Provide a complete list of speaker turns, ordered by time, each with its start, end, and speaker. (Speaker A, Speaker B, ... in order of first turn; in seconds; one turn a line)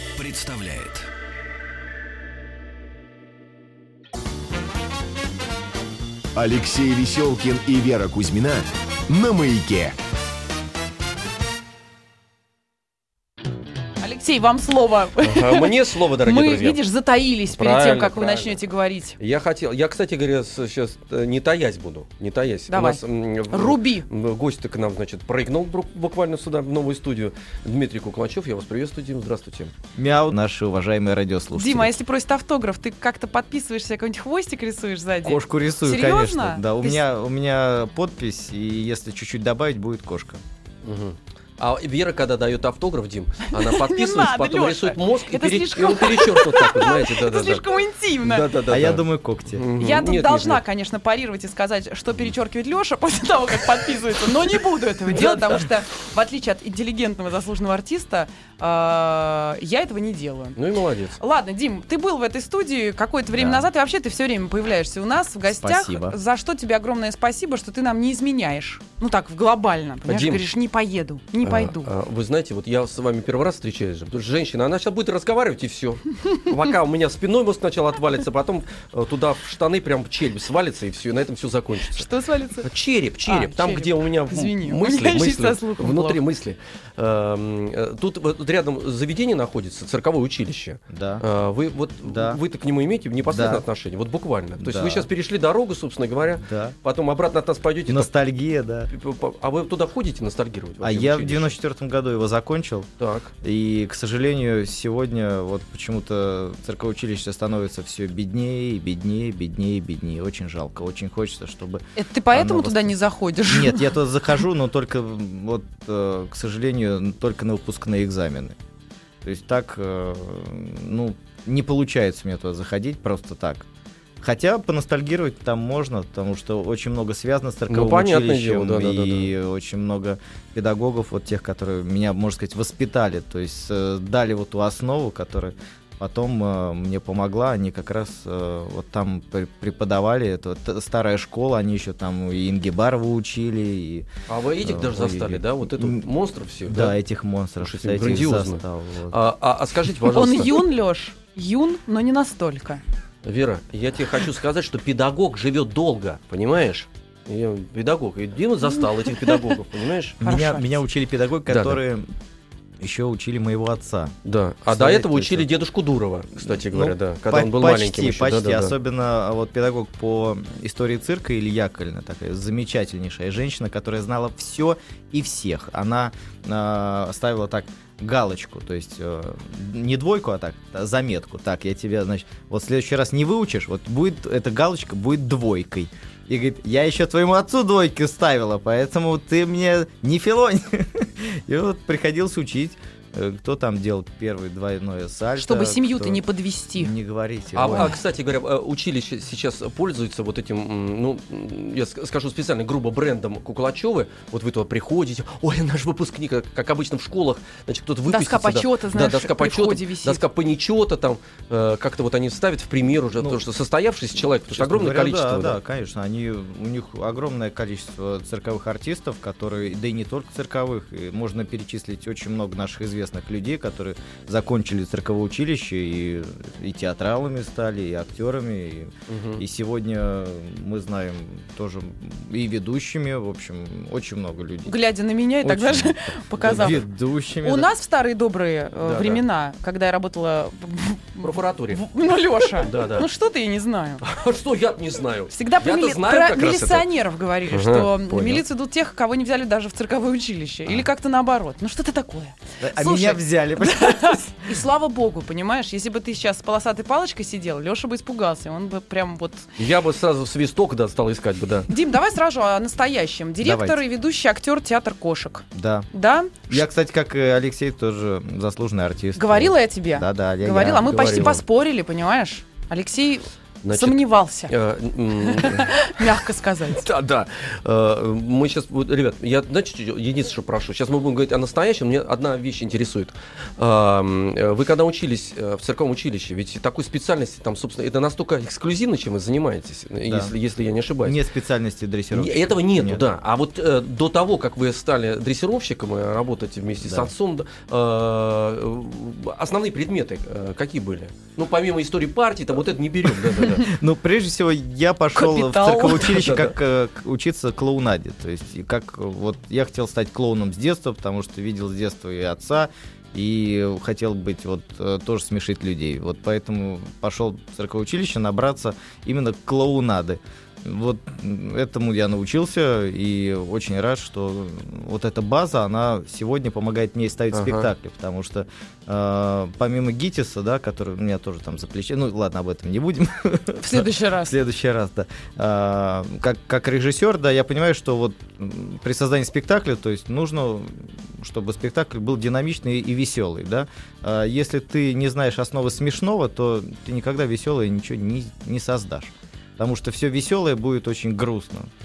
Speaker A: 0.2-1.1
Speaker A: 6.4-10.0
Speaker B: 14.0-19.2
Speaker C: 15.2-16.8
Speaker C: 17.5-18.6
Speaker C: 19.2-29.7
Speaker B: 22.7-24.1
Speaker D: 30.0-31.9
Speaker B: 31.5-37.0
Speaker D: 35.2-40.4
Speaker C: 40.8-47.7
Speaker B: 43.5-48.5
Speaker C: 48.2-50.6
Speaker D: 48.7-49.6
Speaker B: 49.8-60.6
Speaker C: 55.1-55.4
Speaker C: 60.6-61.2
Speaker B: 61.2-71.9
Speaker D: 63.3-63.7
Speaker D: 65.6-66.2
Speaker C: 70.1-70.5
Speaker C: 71.4-82.1
Speaker B: 81.9-82.7
Speaker C: 82.6-98.1
Speaker B: 83.2-86.2
Speaker D: 90.9-91.2
Speaker D: 92.0-92.4
Speaker D: 93.2-93.7
Speaker D: 94.6-95.1
Speaker D: 96.4-96.8
Speaker D: 97.9-98.9
Speaker C: 98.9-101.6
Speaker D: 100.8-102.9
Speaker C: 103.0-103.3
Speaker D: 103.4-118.6
Speaker B: 112.0-113.8
Speaker D: 119.2-123.7
Speaker D: 124.2-144.1
Speaker C: 127.7-129.3
Speaker C: 144.3-147.0
Speaker D: 144.6-146.1
Speaker D: 146.7-149.2
Speaker C: 147.6-150.6
Speaker B: 150.1-152.8
Speaker C: 153.2-160.2
Speaker D: 160.2-162.1
Speaker B: 160.2-160.8
Speaker C: 161.5-161.8
Speaker D: 162.8-164.2
Speaker C: 164.3-168.7
Speaker D: 164.7-165.5
Speaker D: 166.4-196.2
Speaker B: 195.3-196.9
Speaker D: 196.8-197.9
Speaker C: 197.6-215.6
Speaker B: 197.6-198.0
Speaker B: 208.1-210.2
Speaker D: 214.5-234.8
Speaker C: 229.1-229.4
Speaker B: 234.7-236.8
Speaker D: 235.4-237.7
Speaker C: 236.4-236.7
Speaker B: 237.4-244.0
Speaker C: 238.8-239.2
Speaker C: 241.2-241.8
Speaker C: 242.6-243.1
Speaker C: 244.0-246.9
Speaker B: 245.3-259.5
Speaker C: 247.5-248.4
Speaker D: 252.6-254.3
Speaker C: 259.6-261.7
Speaker B: 261.7-266.6
Speaker D: 263.4-263.8
Speaker D: 265.5-265.9
Speaker D: 266.5-271.4
Speaker B: 269.1-274.5
Speaker C: 270.8-271.3
Speaker C: 273.6-276.1
Speaker B: 275.2-276.9
Speaker C: 276.8-291.2
Speaker D: 290.1-290.3
Speaker D: 291.0-293.0
Speaker C: 292.1-303.7
Speaker D: 296.8-297.1
Speaker D: 303.6-351.7
Speaker B: 305.1-306.2
Speaker C: 306.0-306.6
Speaker C: 327.3-327.7
Speaker B: 333.6-334.4